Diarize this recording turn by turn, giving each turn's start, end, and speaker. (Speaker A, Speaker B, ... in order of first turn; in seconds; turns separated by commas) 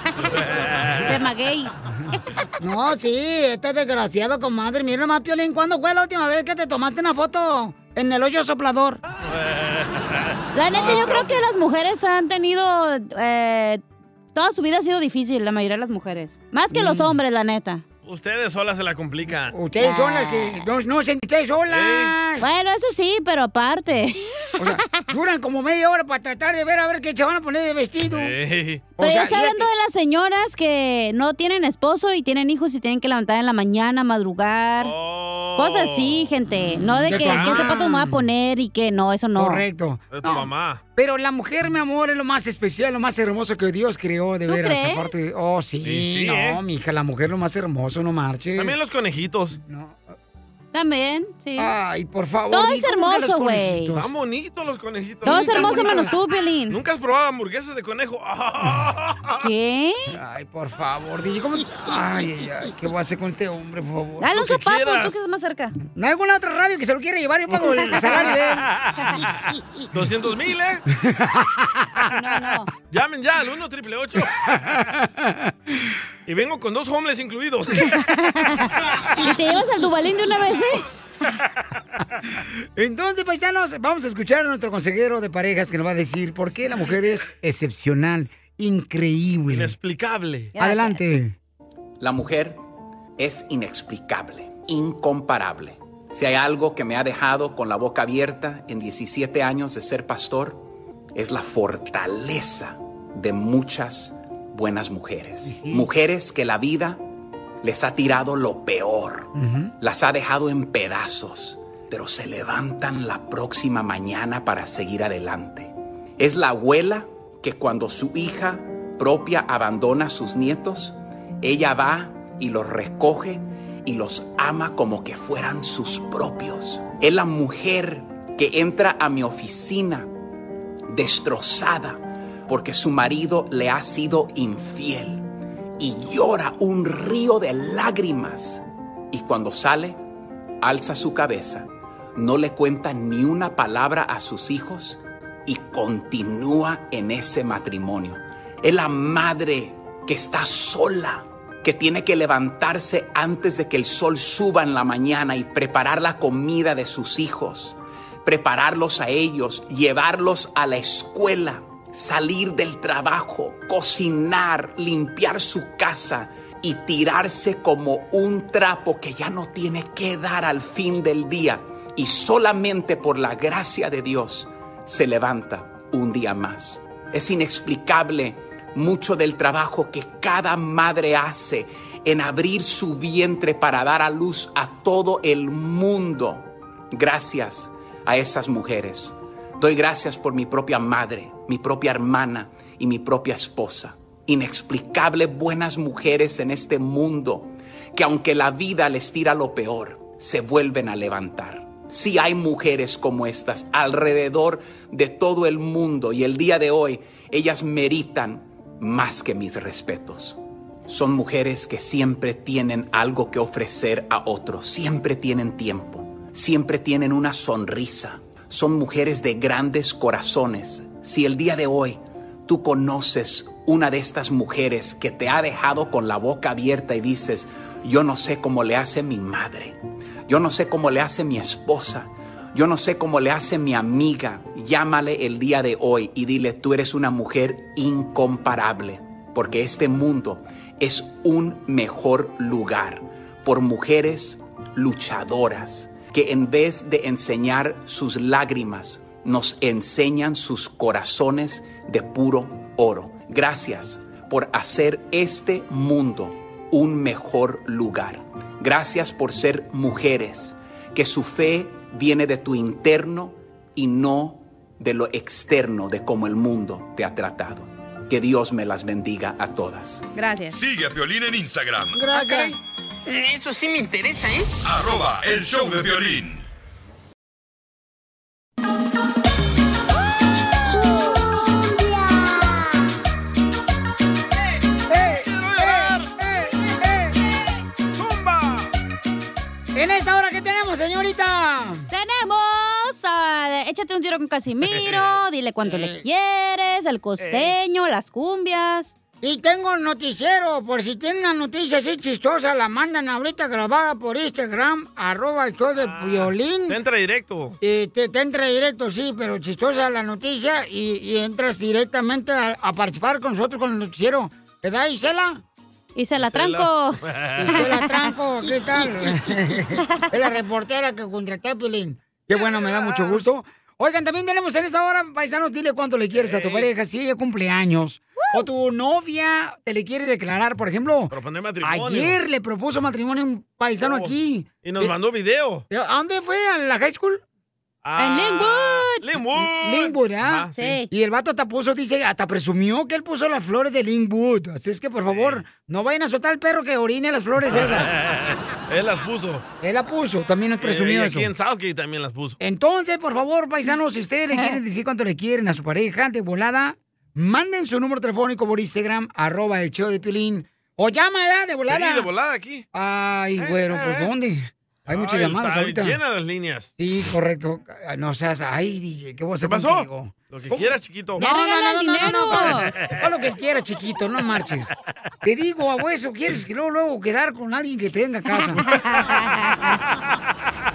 Speaker A: 0.3-1.1, Speaker B: 1.0-1.7, Speaker C: 2.0-9.0, Speaker A: 9.3-11.4, Speaker B: 10.5-13.8, Speaker C: 10.8-11.2, Speaker B: 14.3-17.8, Speaker C: 16.7-17.1, Speaker A: 18.0-19.5, Speaker C: 19.5-22.4, Speaker B: 19.8-20.6, Speaker A: 21.7-22.1, Speaker B: 22.4-24.8, Speaker C: 24.6-28.3, Speaker A: 28.1-28.9, Speaker C: 29.0-29.7, Speaker B: 29.0-34.9, Speaker A: 34.8-36.3, Speaker B: 35.5-39.6, Speaker C: 37.0-38.2, Speaker A: 37.1-37.7, Speaker C: 39.4-48.7, Speaker A: 40.1-40.8, Speaker B: 44.5-45.2, Speaker A: 45.8-46.6, Speaker A: 48.5-49.6, Speaker C: 49.6-50.1, Speaker B: 50.7-51.7, Speaker C: 51.6-54.1, Speaker B: 52.5-53.9, Speaker A: 53.9-56.1, Speaker C: 55.2-56.1, Speaker B: 55.2-56.8, Speaker A: 56.7-59.5, Speaker B: 59.4-60.1, Speaker C: 60.1-64.5, Speaker B: 64.2-65.7, Speaker A: 64.3-65.3, Speaker C: 65.9-68.7, Speaker A: 67.7-69.2, Speaker A: 69.9-70.8, Speaker C: 70.9-72.0, Speaker B: 72.1-72.7, Speaker A: 72.9-74.3, Speaker C: 74.4-75.5, Speaker A: 76.3-77.9, Speaker B: 77.9-80.8, Speaker C: 82.8-89.7, Speaker A: 89.5-90.5, Speaker B: 90.5-91.0, Speaker C: 90.6-91.4, Speaker D: 92.0-92.6, Speaker D: 93.2-100.6, Speaker D: 101.1-107.0, Speaker C: 105.4-105.9, Speaker D: 107.6-130.1, Speaker C: 109.3-109.7, Speaker D: 130.9-135.2, Speaker D: 135.8-140.0, Speaker D: 140.6-270.1, Speaker B: 270.1-270.6, Speaker E: 270.5-272.1, Speaker C: 271.9-272.5, Speaker E: 274.6-276.4, Speaker C: 284.9-287.1, Speaker A: 285.2-286.1, Speaker A: 287.9-288.7, Speaker C: 289.7-291.9, Speaker B: 291.9-298.9, Speaker A: 294.6-295.2, Speaker C: 295.6-296.0, Speaker A: 297.2-297.6, Speaker C: 299.2-306.8, Speaker A: 305.8-307.6, Speaker C: 307.6-315.4, Speaker B: 315.9-318.1, Speaker A: 316.2-317.7, Speaker C: 317.4-334.9, Speaker A: 322.7-323.1, Speaker A: 326.1-326.7, Speaker A: 331.1-332.2, Speaker A: 333.8-335.6, Speaker C: 335.7-337.2, Speaker A: 337.8-340.8, Speaker B: 338.0-339.0, Speaker C: 339.4-347.9, Speaker B: 340.5-340.9, Speaker A: 345.1-345.4, Speaker A: 347.5-349.4, Speaker C: 349.6-351.3, Speaker A: 350.6-352.4, Speaker C: 352.4-362.1, Speaker A: 361.7-362.7, Speaker C: 362.7-366.0, Speaker A: 363.4-364.1, Speaker A: 364.9-366.7, Speaker C: 366.8-370.6, Speaker A: 369.4-371.2, Speaker C: 371.2-374.7, Speaker B: 371.2-372.7, Speaker A: 372.5-373.0, Speaker C: 375.2-378.6, Speaker B: 378.6-379.8